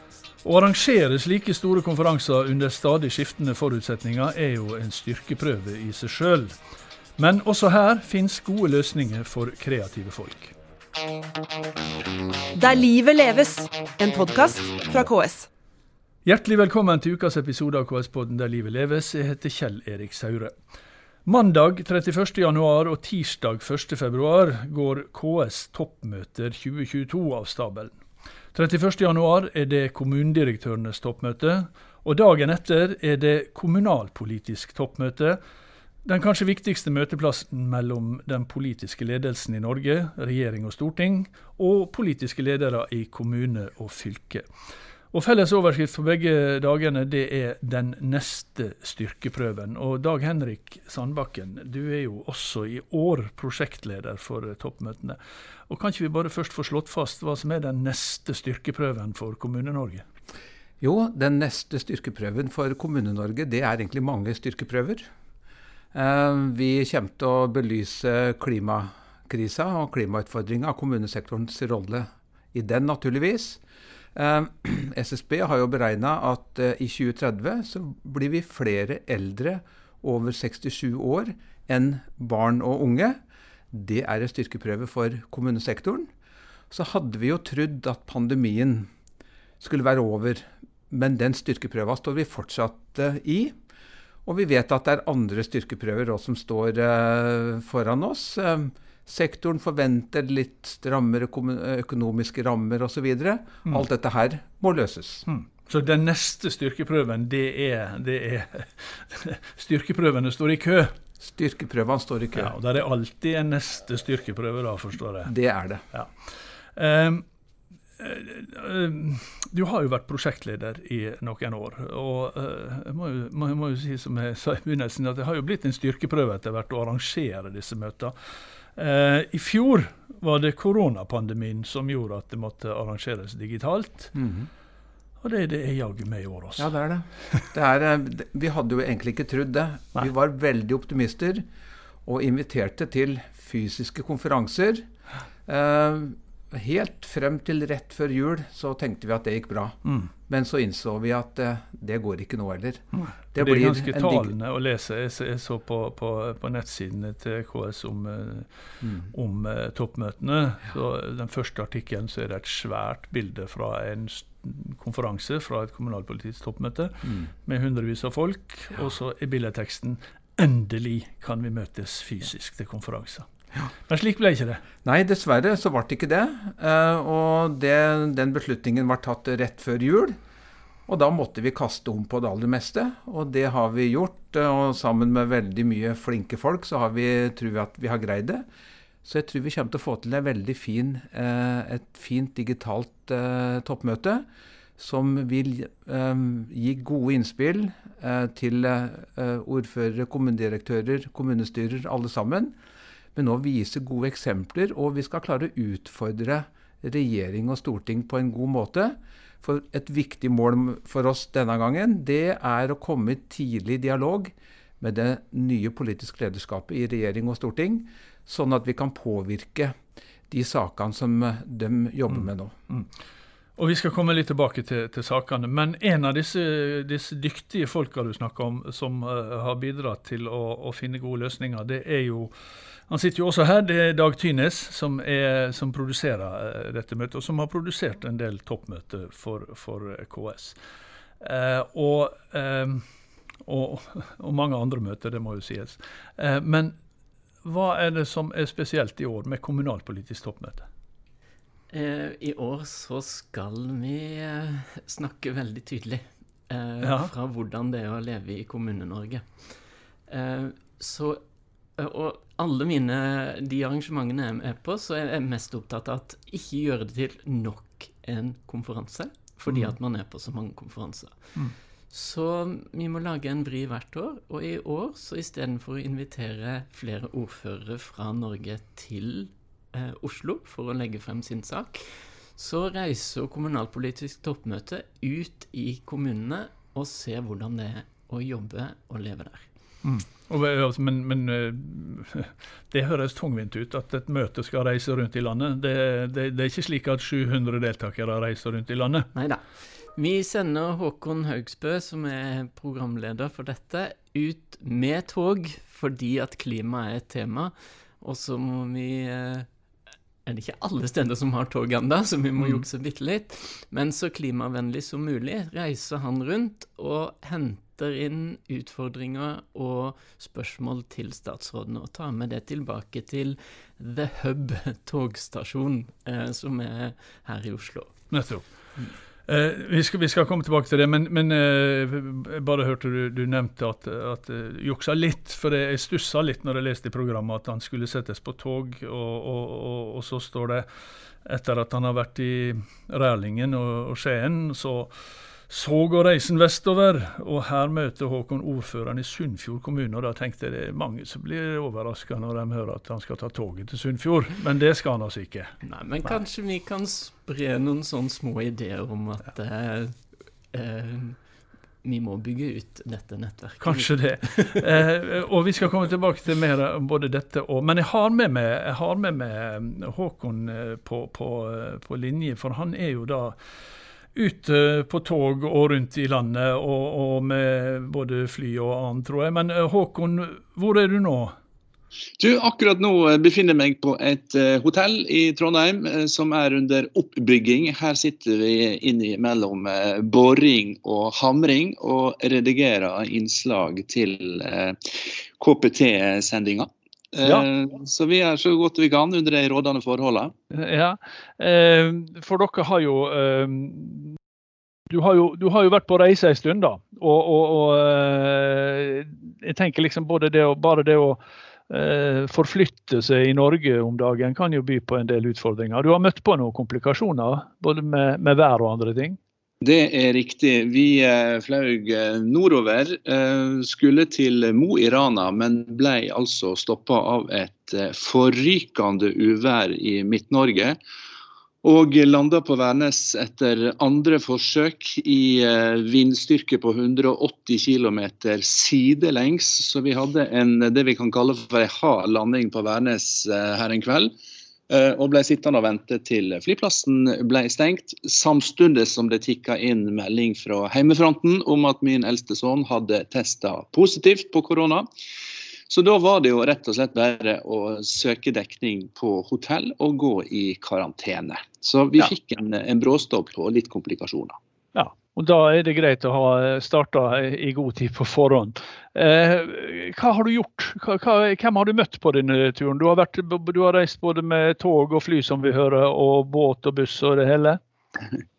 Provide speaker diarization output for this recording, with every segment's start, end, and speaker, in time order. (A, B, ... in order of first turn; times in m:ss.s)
0:00.4-0:06.5 A
0:07.2-0:10.5 A
0:12.5-0:15.5 B
0:16.2-0:20.5 A
0:21.2-0:28.0 A
0:28.5-0:35.4 A
0:36.0-0:44.4 A
0:45.1-0:55.2 A
0:55.7-1:00.0 A
1:00.8-1:05.1 C
1:05.9-1:13.6 C
1:14.1-1:23.2 C
1:23.7-1:26.1 C
1:26.7-1:28.9 C
1:29.6-1:33.5 C
1:34.2-1:45.3 C
1:45.3-1:50.9 A
1:51.2-1:52.5 C
1:52.3-1:55.3 A
1:55.2-1:55.8 C
1:55.9-1:57.2 A
1:58.0-2:08.1 A
2:08.8-2:14.1 A
2:14.1-2:14.5 C
2:15.2-2:16.7 A
2:16.6-2:21.4 C
2:22.0-2:24.9 C
2:25.4-2:34.3 C
2:32.9-2:38.5 A
2:39.0-2:54.6 A
2:54.8-3:00.2 C
3:00.9-3:08.4 C
3:09.0-3:14.2 C
3:14.8-3:22.6 C
3:23.1-3:39.8 C
3:40.3-3:42.5 C
3:43.6-3:52.3 A
3:52.9-4:00.6 A
4:01.2-4:02.8 A
4:03.4-4:06.7 A
4:07.4-4:10.6 A
4:11.7-4:19.5 D
4:16.8-4:17.1 A
4:20.1-4:21.2 D
4:21.8-4:31.2 D
4:29.5-4:29.7 A
4:31.9-4:49.5 D
4:49.8-4:59.1 A
4:59.1-5:09.5 D
5:10.2-5:27.9 D
5:28.1-5:28.5 A
5:29.3-5:40.6 A
5:41.2-5:44.9 A
5:45.5-5:55.6 A
5:55.6-6:01.2 D
6:01.8-6:04.6 D
6:03.6-6:13.4 A
6:14.1-6:21.3 A
6:22.2-6:34.8 E
6:35.4-6:40.3 E
6:40.5-6:44.2 A
6:44.9-6:59.2 A
6:59.6-7:10.8 E
7:11.6-7:24.1 E
7:24.7-7:34.9 E
7:35.7-7:44.4 E
7:44.7-7:57.6 A